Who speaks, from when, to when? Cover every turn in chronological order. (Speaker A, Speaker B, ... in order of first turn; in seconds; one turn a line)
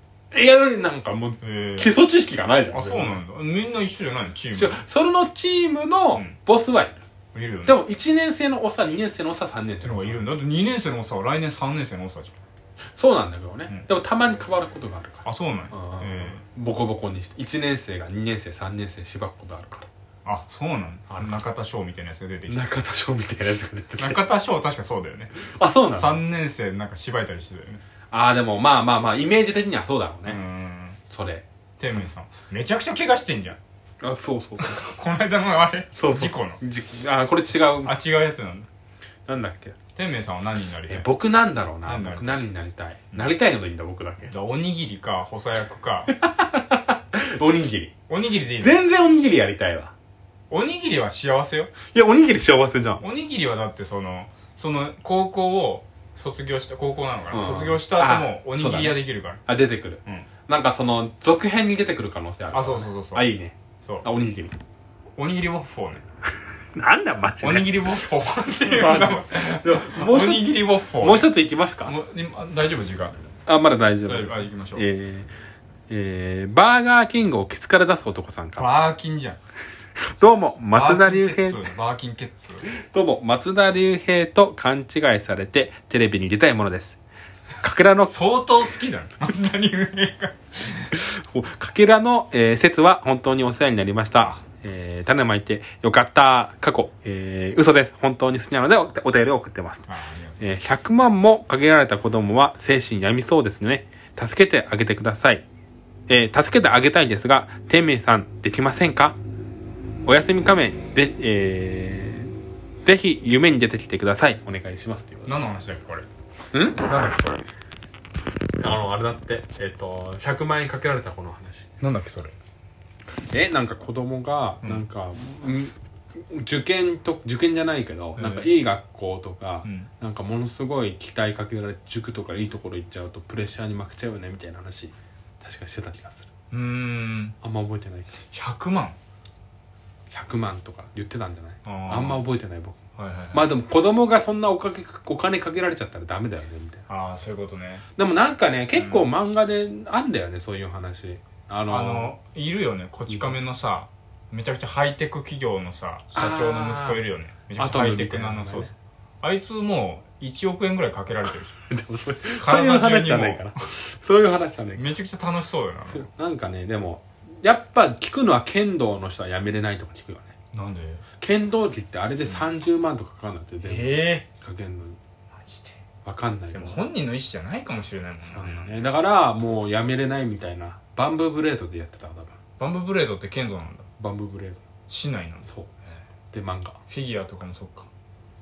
Speaker A: 0.3-3.2
Speaker B: 1.4-1.9
Speaker B: 2.7-4.8
Speaker A: 4.5-7.0
Speaker B: 6.1-6.4
Speaker B: 7.3-7.8
Speaker A: 7.7-10.2
Speaker B: 9.8-12.3
Speaker A: 13.0-19.9
Speaker B: 15.2-16.4
Speaker B: 20.2-22.7
Speaker A: 21.1-21.4
Speaker A: 22.5-24.2
Speaker B: 24.0-25.4
Speaker A: 25.4-26.2
Speaker B: 25.9-27.8
Speaker A: 28.1-30.4
Speaker B: 30.3-31.0
Speaker A: 31.1-32.0
Speaker B: 31.8-33.6
Speaker A: 34.0-34.9
Speaker B: 34.6-36.6
Speaker A: 36.0-38.0
Speaker B: 37.9-38.7
Speaker A: 39.3-39.8
Speaker B: 40.0-41.1
Speaker A: 40.9-44.3
Speaker B: 41.8-42.5
Speaker B: 44.3-46.1
Speaker A: 46.1-47.9
Speaker B: 48.1-48.8
Speaker A: 48.6-49.9
Speaker B: 50.5-51.7
Speaker A: 51.9-53.0
Speaker B: 53.0-59.4
Speaker A: 57.3-64.5
Speaker B: 62.5-63.3
Speaker B: 63.8-64.1
Speaker B: 65.2-66.0
Speaker A: 66.8-72.0
Speaker B: 67.4-71.3
Speaker B: 71.8-73.2
Speaker A: 73.5-75.3
Speaker B: 74.0-74.9
Speaker A: 75.9-78.7
Speaker B: 78.6-79.4
Speaker A: 80.2-81.6
Speaker B: 80.7-82.7
Speaker A: 82.8-87.0
Speaker A: 87.6-88.2
Speaker B: 88.0-90.9
Speaker A: 90.9-99.9
Speaker B: 94.2-94.4
Speaker B: 99.9-100.8
Speaker A: 100.4-105.5
Speaker A: 106.1-109.2
Speaker A: 110.0-112.3
Speaker A: 112.8-115.5
Speaker B: 115.2-116.1
Speaker A: 116.5-116.9
Speaker B: 116.8-117.4
Speaker A: 118.6-121.7
Speaker B: 121.8-122.3
Speaker A: 123.3-136.3
Speaker B: 124.6-124.9
Speaker B: 128.2-128.5
Speaker B: 129.6-129.9
Speaker B: 136.5-137.4
Speaker A: 137.4-138.2
Speaker B: 138.3-139.0
Speaker A: 140.1-142.8
Speaker B: 141.7-142.2
Speaker B: 143.0-143.5
Speaker A: 143.3-146.8
Speaker B: 146.9-147.8
Speaker A: 148.0-152.1
Speaker B: 148.8-149.1
Speaker B: 151.7-161.6
Speaker A: 153.1-153.3
Speaker A: 156.1-157.0
Speaker A: 157.6-158.7
Speaker A: 161.7-164.9
Speaker B: 162.4-163.4
Speaker B: 164.8-166.1
Speaker A: 165.9-170.3
Speaker B: 170.5-171.0
Speaker A: 171.2-175.0
Speaker B: 172.2-172.5
Speaker B: 173.6-174.3
Speaker B: 175.3-175.8
Speaker A: 176.1-176.8
Speaker B: 176.5-178.8
Speaker A: 178.3-182.3
Speaker B: 182.6-183.9
Speaker A: 184.0-184.6
Speaker B: 184.9-186.0
Speaker A: 186.3-186.8
Speaker B: 186.9-187.9